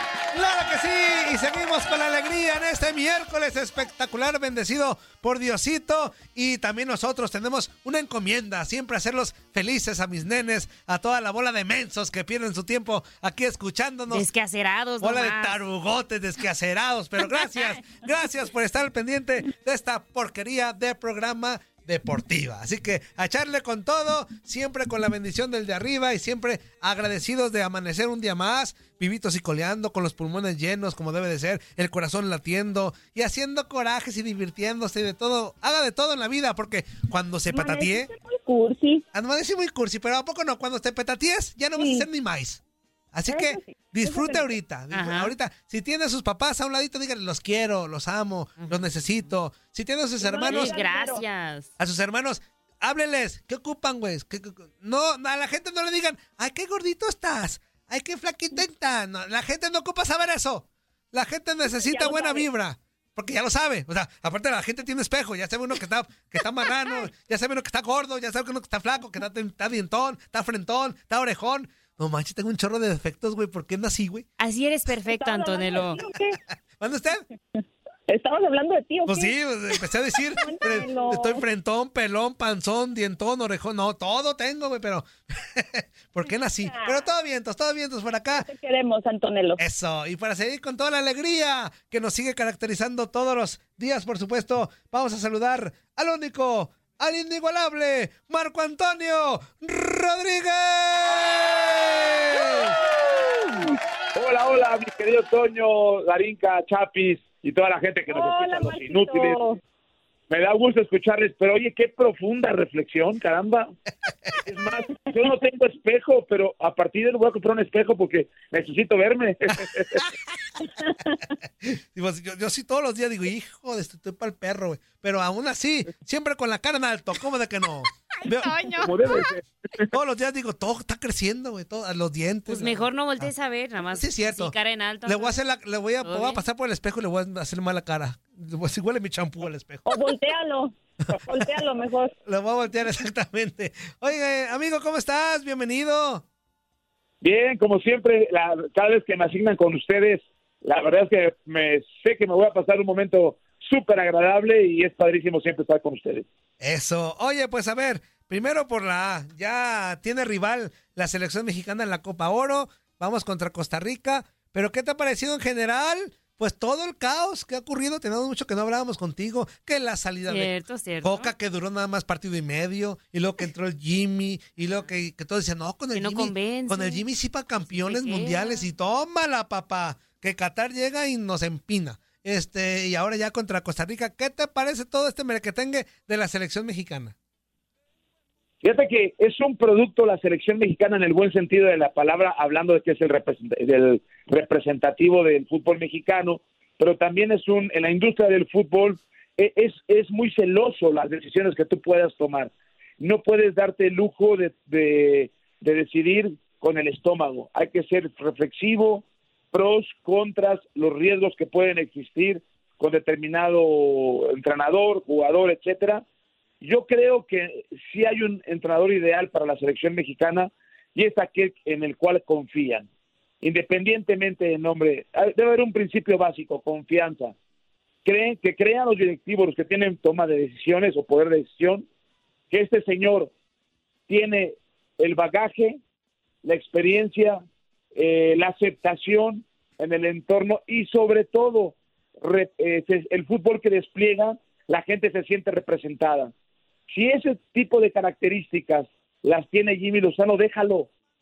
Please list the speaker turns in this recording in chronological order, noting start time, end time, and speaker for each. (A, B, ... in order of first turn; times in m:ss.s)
0:00.3-0:14.3 A
0:14.1-0:15.6 B
0:15.0-0:38.1 A
0:37.5-0:39.0 C
0:39.1-0:42.6 A
0:41.8-0:42.0 C
0:43.1-0:50.8 A
0:43.3-0:44.5 C
0:44.9-0:45.3 B
0:50.2-0:51.2 C
0:50.4-0:51.7 B
0:51.8-1:14.2 A
1:01.7-1:02.5 C
1:14.4-1:16.0 B
1:15.2-1:16.4 C
1:16.8-1:17.2 A
1:17.6-1:19.3 C
1:19.1-1:28.5 A
1:20.4-1:21.4 C
1:28.4-1:29.6 C
1:29.6-1:42.7 A
1:44.2-1:49.4 D
1:48.1-1:49.6 C
1:50.3-1:53.7 D
1:54.4-2:00.0 D
2:01.6-2:08.6 A
2:08.3-2:09.1 B
2:08.8-2:09.8 D
2:09.9-2:13.3 A
2:12.5-2:15.4 B
2:13.9-2:14.6 A
2:15.1-2:20.0 A
2:16.0-2:16.4 B
2:19.9-2:22.1 C
2:22.3-2:26.2 A
2:27.2-2:36.2 D
2:36.6-3:07.2 A
2:50.3-2:51.3 B
2:55.9-2:57.1 B
2:57.6-2:58.7 B
3:08.6-3:36.0 D
3:36.6-3:42.9 D
3:43.4-3:47.4 D
3:48.0-3:51.9 D
3:52.5-3:53.3 D
3:54.1-3:55.8 D
3:56.4-3:57.4 D
3:58.0-4:06.3 D
4:06.9-4:10.9 D